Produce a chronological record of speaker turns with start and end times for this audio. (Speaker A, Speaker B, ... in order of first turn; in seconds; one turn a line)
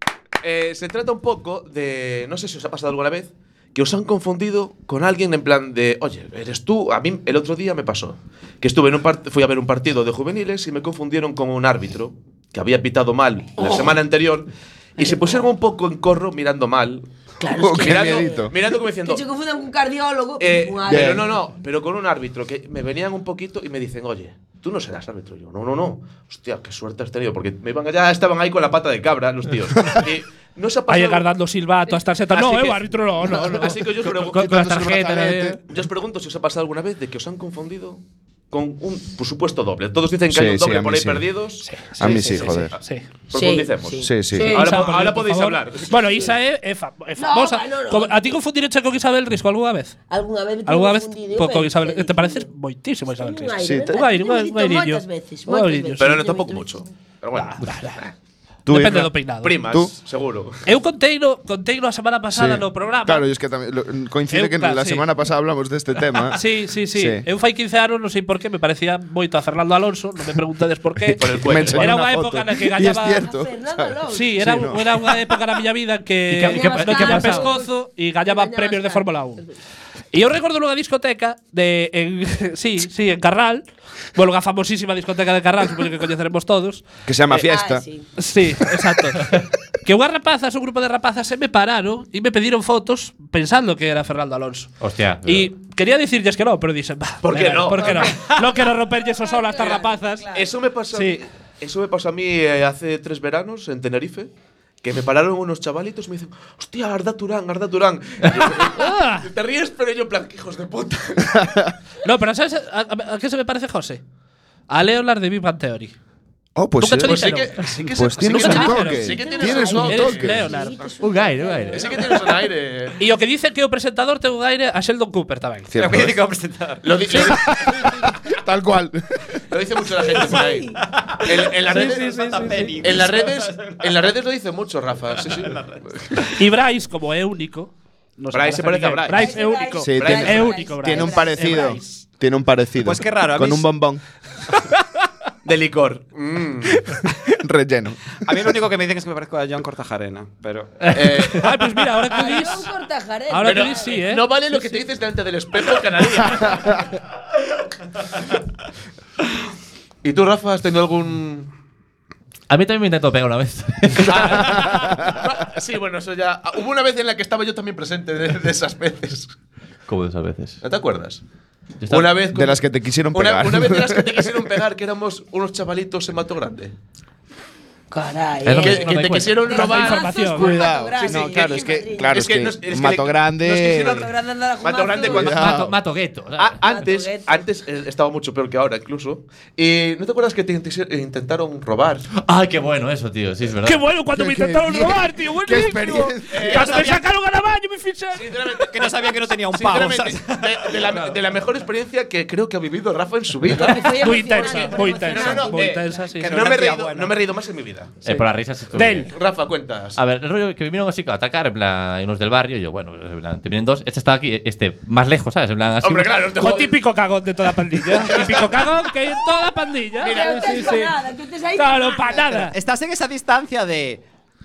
Speaker A: 0.4-17.1
Speaker B: 13.6-13.9
Speaker B: 15.0-15.4
Speaker B: 17.4-18.4
Speaker C: 17.6-18.5
Speaker A: 17.8-19.2
Speaker B: 19.0-21.3
Speaker A: 20.4-31.3
Speaker C: 20.9-21.2
Speaker D: 30.9-33.9
Speaker A: 32.3-34.5
Speaker E: 34.0-35.6
Speaker C: 34.2-35.6
Speaker A: 35.7-38.0
Speaker A: 38.5-41.7
Speaker C: 40.3-41.2
Speaker D: 41.6-43.1
Speaker C: 42.0-42.7
Speaker A: 42.2-42.8
Speaker A: 43.3-46.3
Speaker B: 43.3-44.1
Speaker C: 44.0-44.8
Speaker D: 44.3-50.0
Speaker B: 47.2-48.4
Speaker B: 50.1-52.5
Speaker D: 50.6-56.2
Speaker B: 53.1-56.6
Speaker C: 53.6-53.9
Speaker A: 56.0-58.1
Speaker D: 57.3-58.0
Speaker C: 58.6-59.1
Speaker D: 58.7-59.6
Speaker A: 59.4-60.6
Speaker D: 60.6-63.2
Speaker C: 62.3-66.4
Speaker D: 64.3-65.0
Speaker D: 66.3-73.2
Speaker C: 66.9-67.2
Speaker A: 71.1-72.0
Speaker C: 71.3-75.0
Speaker B: 73.2-74.4
Speaker D: 74.1-79.4
Speaker E: 76.3-77.5
Speaker B: 76.4-79.5
Speaker D: 80.1-86.9
Speaker C: 87.0-87.8
Speaker B: 87.3-88.1
Speaker D: 88.2-100.2
Speaker E: 94.8-95.5
Speaker A: 97.2-98.4
Speaker B: 97.8-98.3
Speaker B: 99.2-100.5
Speaker A: 100.3-104.3
Speaker D: 100.9-101.2
Speaker A: 104.8-111.4
Speaker D: 108.7-109.3
Speaker C: 111.3-111.7
Speaker D: 112.0-114.0
Speaker D: 114.7-115.9
Speaker C: 116.5-117.3
Speaker D: 116.8-120.8
Speaker A: 117.0-120.4
Speaker C: 117.9-120.5
Speaker B: 119.1-122.3
Speaker E: 121.0-122.1
Speaker A: 121.7-123.0
Speaker D: 123.0-125.8
Speaker C: 125.7-126.2
Speaker F: 125.8-127.3
Speaker A: 126.8-127.9
Speaker C: 127.1-129.2
Speaker A: 129.5-132.2
Speaker B: 130.3-130.8
Speaker F: 131.0-134.0
Speaker D: 131.6-132.9
Speaker A: 132.8-136.4
Speaker F: 135.1-135.8
Speaker D: 136.3-142.0
Speaker A: 138.3-140.7
Speaker B: 139.1-141.8
Speaker C: 139.8-144.0
Speaker F: 142.8-143.7
Speaker A: 145.4-146.9
Speaker C: 146.8-148.6
Speaker F: 148.2-151.0
Speaker A: 150.9-151.6
Speaker D: 151.0-152.7
Speaker B: 152.1-154.0
Speaker D: 153.3-154.8
Speaker A: 153.4-156.8
Speaker C: 156.3-156.7
Speaker A: 160.0-161.5
Speaker E: 162.5-164.6
Speaker A: 164.0-169.3
Speaker C: 164.1-165.2
Speaker E: 169.9-170.6
Speaker A: 170.6-171.2
Speaker E: 171.8-172.1
Speaker A: 171.8-172.6
Speaker C: 172.3-174.6
Speaker A: 173.1-176.7
Speaker B: 177.9-182.2
Speaker E: 178.4-179.6
Speaker A: 178.6-180.4
Speaker D: 179.4-180.8
Speaker C: 180.3-184.1
Speaker A: 181.0-184.1
Speaker B: 183.4-185.4
Speaker A: 184.6-185.5
Speaker C: 185.0-185.8
Speaker E: 185.2-186.6
Speaker A: 186.3-192.1
Speaker B: 186.6-187.4
Speaker E: 192.2-193.8
Speaker D: 193.6-198.3
Speaker C: 194.1-196.7
Speaker A: 196.3-196.9
Speaker F: 196.5-197.0
Speaker A: 198.1-208.0
Speaker F: 198.6-201.1
Speaker D: 203.5-206.4
Speaker B: 203.5-205.8
Speaker F: 206.2-207.2
Speaker E: 208.0-209.1
Speaker D: 208.7-209.1
Speaker A: 208.8-210.0
Speaker E: 210.0-216.2
Speaker A: 215.8-216.8
Speaker D: 216.3-221.0
Speaker A: 217.9-218.7
Speaker A: 220.0-220.8
Speaker B: 220.0-222.5
Speaker D: 221.5-222.5
Speaker F: 222.5-224.0